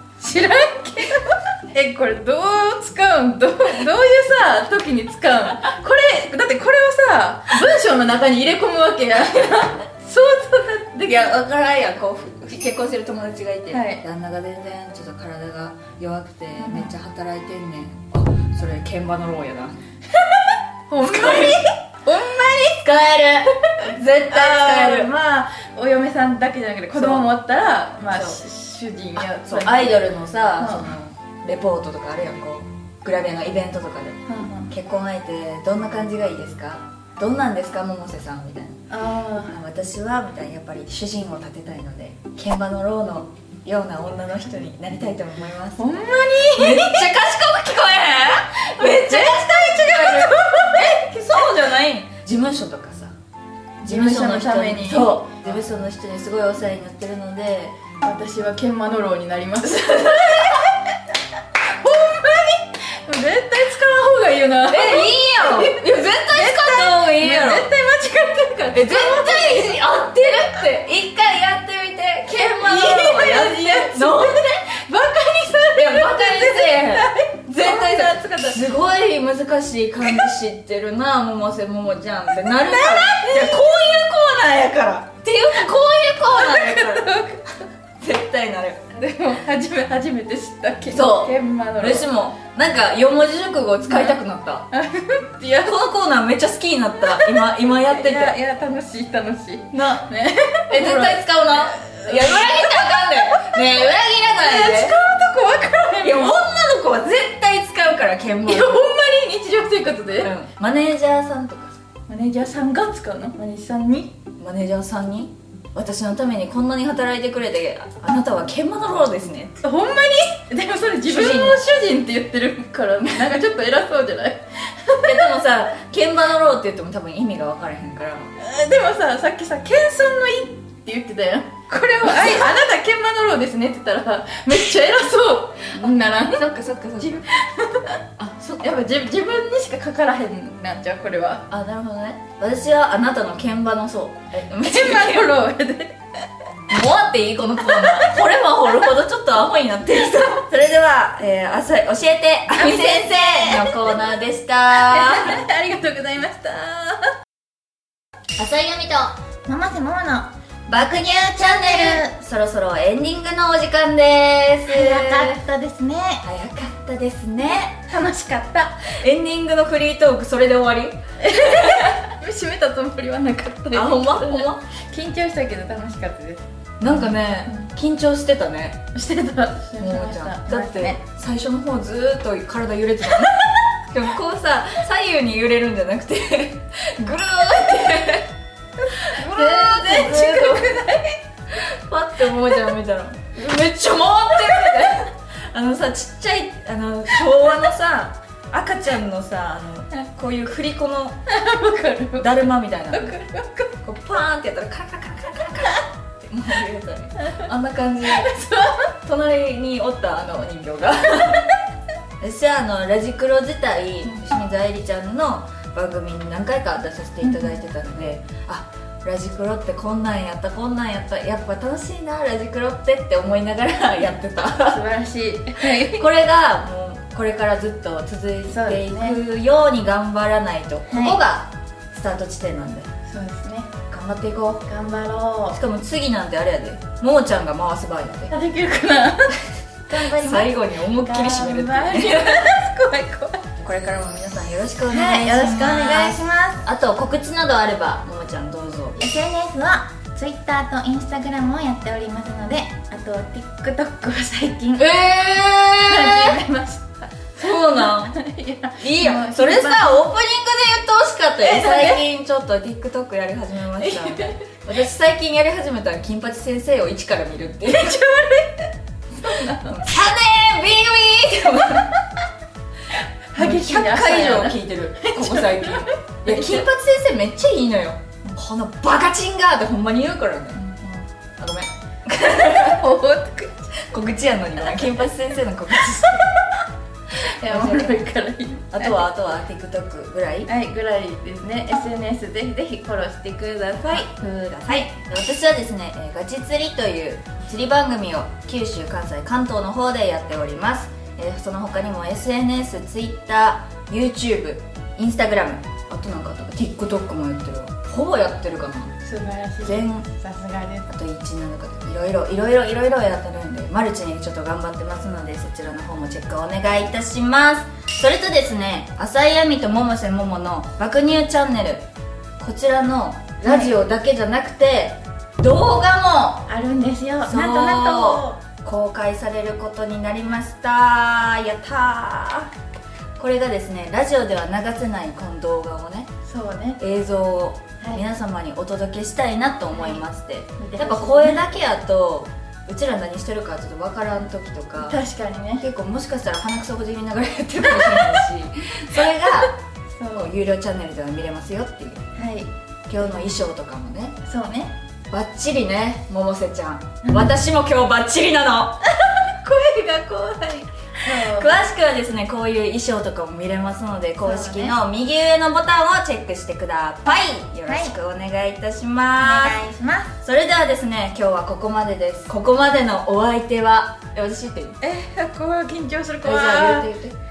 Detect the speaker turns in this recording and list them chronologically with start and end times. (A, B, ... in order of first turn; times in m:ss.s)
0:00.2-0:11.1 A
0:11.0-0:19.8 B
0:13.7-0:14.0 A
0:16.6-0:16.9 A
0:20.1-0:22.9 A
0:21.0-0:21.6 B
0:22.8-0:25.1 B
0:23.8-0:30.0 A
0:26.9-0:27.3 B
0:28.1-0:28.4 B
0:29.2-0:38.9 B
0:30.6-0:30.9 A
0:34.3-0:34.7 A
0:38.9-0:39.6 A
0:39.4-0:45.8 B
0:45.8-0:47.1 A
0:46.6-0:53.1 B
0:48.8-0:51.0 A
0:53.8-0:57.9 B
0:53.8-0:55.2 A
0:58.0-1:01.0 A
0:59.8-1:00.6 B
1:01.6-1:10.5 A
1:04.7-1:07.7 B
1:08.7-1:14.4 B
1:12.3-1:18.8 A
1:15.7-1:27.1 B
1:22.5-1:23.6 A
1:26.3-1:27.6 A
1:28.0-1:28.9 B
1:28.9-1:32.1 A
1:30.9-1:34.7 B
1:33.9-1:34.2 A
1:34.7-1:35.8 A
1:35.6-1:38.4 B
1:37.0-1:43.6 A
1:39.7-1:40.1 B
1:40.7-1:44.9 B
1:44.4-1:46.4 A
1:46.0-1:48.8 B
1:48.4-1:50.3 A
1:50.2-1:51.8 B
1:52.1-1:54.1 A
1:54.4-1:59.5 B
1:59.6-2:05.4 A
2:01.0-2:01.6 B
2:05.0-2:08.3 B
2:08.4-2:18.0 A
2:15.8-2:17.2 B
2:18.2-2:18.8 B
2:18.6-2:21.5 A
2:21.5-2:25.3 B
2:24.6-2:26.0 A
2:26.7-2:35.4 B
2:27.6-2:28.1 A
2:32.5-2:33.8 A
2:34.7-2:37.1 A
2:38.4-2:39.2 B
2:39.4-2:42.1 A
2:40.7-2:45.4 B
2:44.6-2:46.2 A
2:46.2-2:47.8 B
2:47.9-2:48.9 A
2:48.9-2:51.7 B
2:51.2-2:57.6 A
2:53.7-2:54.7 B
2:56.8-2:58.8 B
2:58.9-3:01.0 A
2:59.8-3:08.3 B
3:08.9-3:11.2 A
3:09.0-3:10.8 B
3:11.5-3:21.2 B
3:14.5-3:14.8 A
3:21.3-3:22.3 A
3:22.2-3:23.1 B
3:22.9-3:23.7 A
3:23.8-3:28.4 B
3:28.1-3:28.8 A
3:29.0-3:31.5 B
3:32.2-3:44.8 B
3:44.6-3:46.0 A
3:45.8-3:52.9 B
3:48.5-3:49.2 A
3:50.9-3:51.2 A
3:53.1-3:53.7 A
3:53.9-3:54.7 B
3:54.7-3:55.6 A
3:55.5-3:58.3 B
3:58.3-3:59.4 A
3:59.9-4:02.5 B
3:59.9-4:03.4 A
4:03.6-4:09.0 B
4:04.9-4:06.6 A
4:09.0-4:15.0 A
4:14.8-4:16.4 B
4:15.8-4:17.1 A
4:17.4-4:18.2 B
4:17.8-4:20.0 A
4:18.8-4:28.0 B
4:21.4-4:22.0 A
4:23.8-4:24.4 A
4:27.7-4:29.8 A
4:29.6-4:32.0 B
4:33.3-4:36.6 A
4:33.4-4:40.7 B
4:40.6-4:40.9 A
4:41.4-4:42.8 B
4:42.6-4:43.7 A
4:43.8-4:46.3 B
4:47.4-4:49.0 A
4:47.4-4:48.0 B
4:48.7-4:50.5 B
4:50.5-4:54.1 A
4:53.8-5:09.0 B
5:09.0-5:10.9 A
5:09.6-5:10.0 B
5:10.9-5:21.8 B
5:22.4-5:26.4 B
5:23.4-5:23.8 A
5:26.5-5:28.4 A
5:27.2-5:32.5 B
5:33.2-5:36.1 B
5:36.3-5:36.8 A
5:36.8-5:45.0 B
5:39.7-5:40.0 A
5:40.6-5:41.4 A
5:44.8-5:45.6 A
5:45.6-5:49.6 B
5:50.0-5:50.3 A
5:50.1-5:52.0 B
5:52.2-5:52.5 A
5:52.9-5:54.2 B
5:54.3-5:54.7 A
5:55.1-5:58.8 B
5:57.0-5:57.3 A
5:58.8-6:01.7 A
6:01.1-6:09.6 B
6:04.2-6:04.8 A
6:07.7-6:07.9 A
6:09.2-6:10.1 A
6:10.2-6:14.8 B
6:14.8-6:16.9 A
6:16.2-6:17.2 B